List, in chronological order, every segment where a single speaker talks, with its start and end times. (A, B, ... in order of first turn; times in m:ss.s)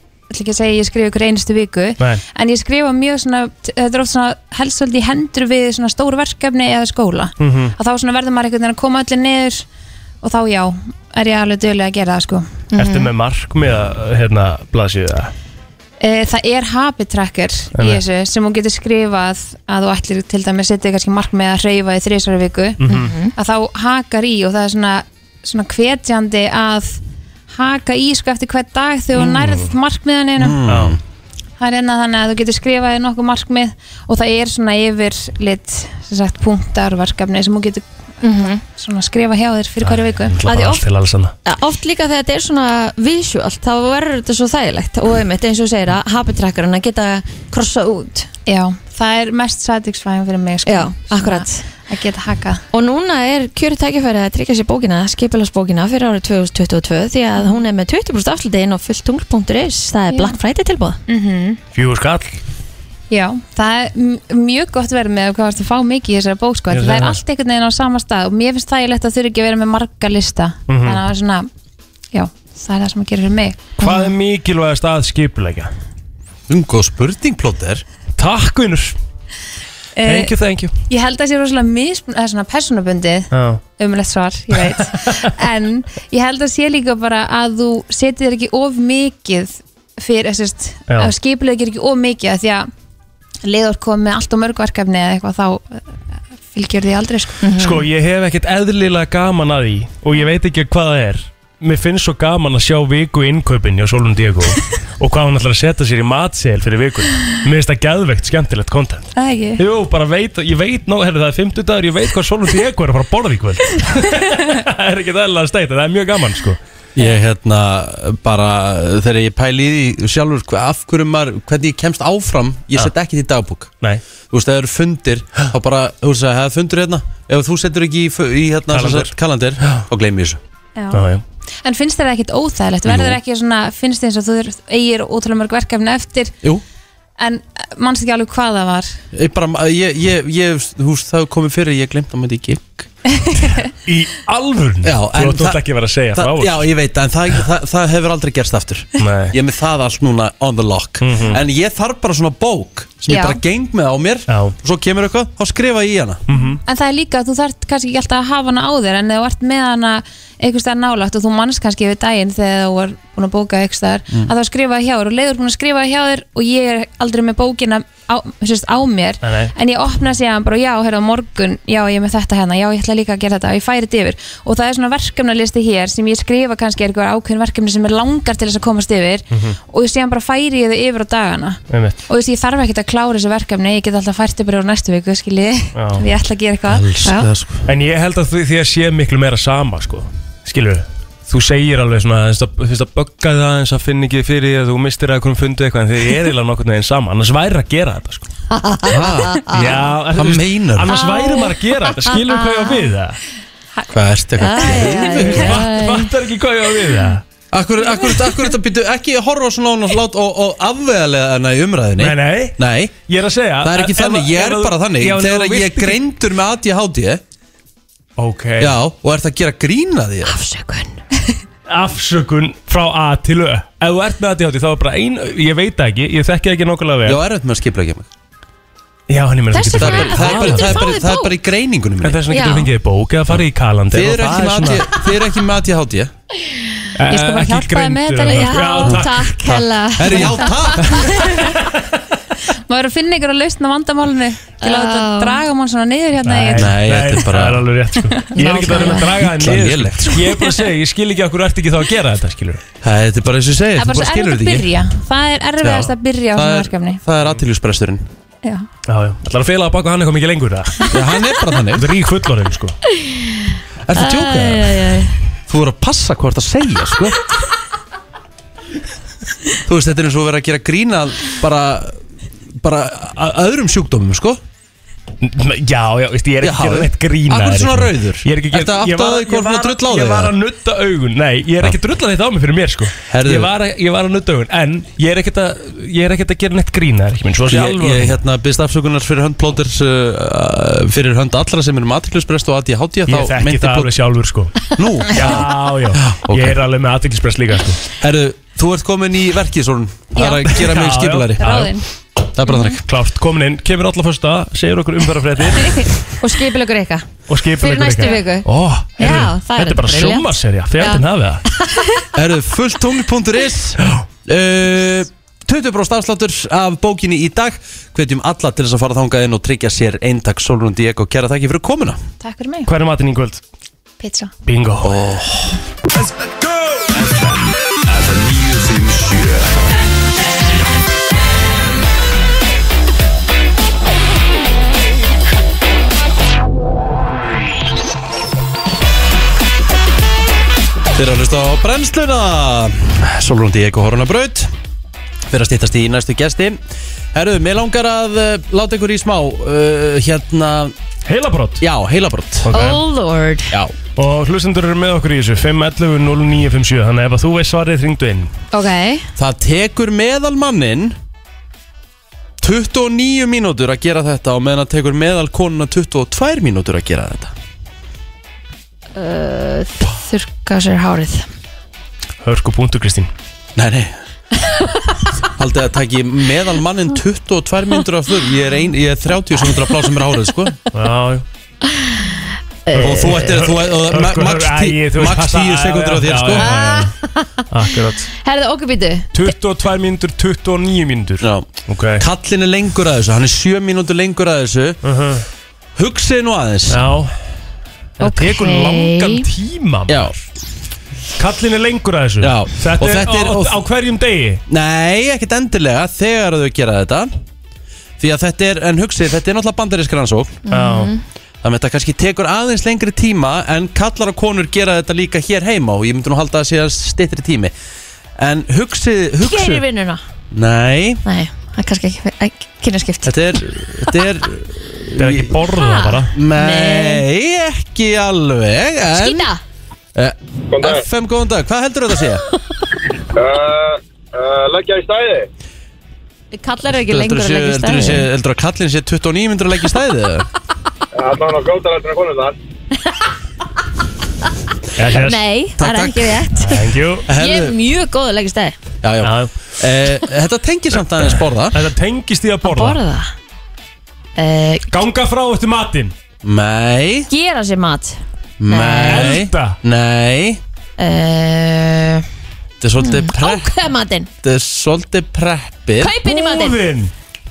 0:00.3-0:09.6 A
0:07.4-0:07.7 B
0:10.2-0:12.6 A
0:12.7-0:13.1 C
0:12.8-0:15.3 B
0:16.0-0:22.8 A
0:17.7-0:18.0 B
0:22.8-0:23.1 B
0:22.9-0:23.3 C
0:23.3-0:27.0 A
0:27.5-0:30.6 A
0:29.4-0:29.7 B
0:30.4-0:31.0 D
0:30.6-0:31.0 B
0:31.6-0:40.4 A
0:38.2-0:38.6 C
0:39.8-0:41.3 B
0:40.5-0:40.8 C
0:41.4-0:48.3 C
0:48.5-0:52.6 A
0:50.6-0:51.6 C
0:52.7-1:01.0 C
1:00.1-1:00.4 A
1:01.1-1:01.6 A
1:01.7-1:02.4 B
1:03.1-1:11.5 A
1:06.7-1:07.2 B
1:10.7-1:11.0 B
1:12.1-1:13.7 A
1:13.8-1:15.7 B
1:16.5-1:17.8 D
1:18.2-1:19.0 B
1:20.0-1:20.3 A
1:20.0-1:20.7 B
1:20.9-1:32.7 A
1:23.3-1:23.6 B
1:33.4-1:36.0 A
1:36.5-1:37.4 A
1:37.4-1:37.8 C
1:37.6-1:56.6 B
1:49.2-1:49.6 A
1:57.0-2:03.7 D
2:04.3-2:10.4 D
2:08.7-2:09.8 B
2:10.8-2:11.0 A
2:10.9-2:11.2 B
2:11.6-2:16.3 A
2:12.8-2:13.2 D
2:17.2-2:18.9 A
2:19.1-2:22.9 D
2:23.2-2:23.6 A
2:23.8-2:26.7 B
2:24.8-2:25.6 D
2:26.1-2:36.2 D
2:29.0-2:29.3 B
2:31.0-2:31.4 B
2:33.1-2:33.4 A
2:34.3-2:34.5 B
2:36.3-2:36.6 B
2:36.3-3:07.3 A
2:49.2-2:49.5 B
2:59.3-2:59.6 B
3:01.7-3:02.0 B
3:05.7-3:06.0 B
3:06.7-3:07.6 D
3:07.6-3:18.3 B
3:18.5-3:19.7 C
3:18.9-3:19.5 D
3:19.5-3:23.2 B
3:20.1-3:20.9 D
3:20.9-3:21.5 C
3:22.1-3:22.8 C
3:23.9-3:25.6 D
3:24.4-3:26.1 C
3:25.1-3:27.2 B
3:27.5-3:33.0 D
3:32.0-3:32.6 B
3:33.1-3:36.0 B
3:33.6-3:37.2 D
3:38.2-3:38.7 B
3:38.6-3:40.4 D
3:40.2-3:41.0 C
3:41.7-3:47.2 B
3:47.0-3:48.1 D
3:49.1-3:50.8 B
3:49.5-3:51.3 C
3:49.6-3:52.2 D
3:52.0-3:54.9 B
3:52.3-3:52.7 C
3:53.9-3:56.1 D
3:57.0-4:00.2 B
3:57.1-3:58.8 A
3:58.1-4:00.8 C
3:58.8-4:01.2 D
4:00.9-4:02.0 B
4:02.7-4:06.7 A
4:04.6-4:05.4 C
4:06.2-4:12.6 B
4:06.5-4:07.6 D
4:08.3-4:09.1 C
4:09.1-4:10.2 D
4:12.8-4:14.7 D
4:13.8-4:17.0 A
4:15.6-4:18.0 D
4:18.9-4:20.9 B
4:20.9-4:21.9 D
4:21.8-4:22.8 B
4:22.9-4:25.1 C
4:23.9-4:24.8 D
4:25.5-4:27.2 D
4:29.6-4:32.0 D
4:32.6-4:34.4 D
4:35.2-4:48.2 B
4:36.4-4:40.3 D
4:43.1-4:43.5 D
4:47.5-4:53.9 D
4:53.1-4:57.8 B
4:54.7-4:56.6 D
4:58.0-5:01.7 D
5:00.2-5:00.4 A
5:00.4-5:01.7 B
5:01.4-5:01.8 A
5:02.4-5:02.8 D
5:02.7-5:05.9 B
5:06.2-5:07.1 C
5:07.3-5:11.4 B
5:07.6-5:08.5 C
5:09.0-5:11.9 C
5:12.1-5:22.0 D
5:22.2-5:22.7 A
5:22.7-5:23.4 B
5:24.0-5:24.3 A
5:24.4-5:24.9 B
5:24.8-5:25.6 D
5:26.8-5:29.5 E
5:40.9-5:44.5 D
5:45.3-5:46.6 D
5:47.1-5:50.7 D
5:51.0-5:51.6 B
5:51.6-5:52.5 D
5:52.4-5:52.8 B
5:52.5-5:53.5 C
5:54.0-5:58.3 B
5:58.5-5:59.1 C
5:59.2-6:00.9 D
6:02.4-6:07.3 D
6:08.9-6:11.3 C
6:12.2-6:13.1 B
6:13.6-6:14.0 D
6:15.4-6:20.6 D
6:20.7-6:21.2 B
6:21.8-6:22.1 C
6:22.7-6:23.3 C
6:22.7-6:26.5 D
6:22.8-6:26.9 B
6:26.4-6:27.4 C
6:27.5-6:28.1 B
6:28.1-6:29.3 C
6:29.1-6:32.0 B
6:31.2-6:34.8 D
6:34.8-6:35.2 B
6:35.8-6:36.8 D
6:36.7-6:37.1 B
6:38.0-6:40.2 B
6:38.0-6:39.2 C
6:39.9-6:40.1 D
6:41.2-6:44.4 B
6:42.2-6:43.6 D
6:44.5-6:47.1 D
6:48.0-6:50.4 D
6:50.5-6:51.0 C
6:50.5-6:50.9 B
6:51.4-6:57.5 D
6:58.2-6:59.6 D
6:59.2-7:00.0 C
7:00.3-7:01.0 D
7:01.0-7:03.9 C
7:03.0-7:05.3 D
7:05.0-7:06.1 B
7:05.6-7:07.0 C
7:06.1-7:09.3 D
7:08.9-7:09.4 C
7:09.9-7:12.2 D
7:10.5-7:10.8 F
7:13.1-7:15.3 F
7:16.3-7:18.0 C
7:16.9-7:20.3 D
7:21.0-7:22.4 F
7:24.8-7:25.2 B
7:24.9-7:28.6 C
7:25.6-7:26.2 D
7:26.4-7:27.1 B
7:27.1-7:27.6 D
7:28.8-7:31.7 D
7:29.0-7:29.3 B
7:31.5-7:32.8 B
7:32.4-7:33.1 C
7:34.2-7:34.8 C
7:34.7-7:35.9 B
7:36.2-7:37.1 D
7:37.1-7:39.2 C
7:38.4-7:40.4 D
7:38.9-7:39.6 B
7:40.8-7:42.0 C
7:42.6-7:43.6 D
7:42.8-7:44.1 C
7:44.2-7:45.9 D
7:45.8-7:46.6 C
7:46.0-7:46.9 B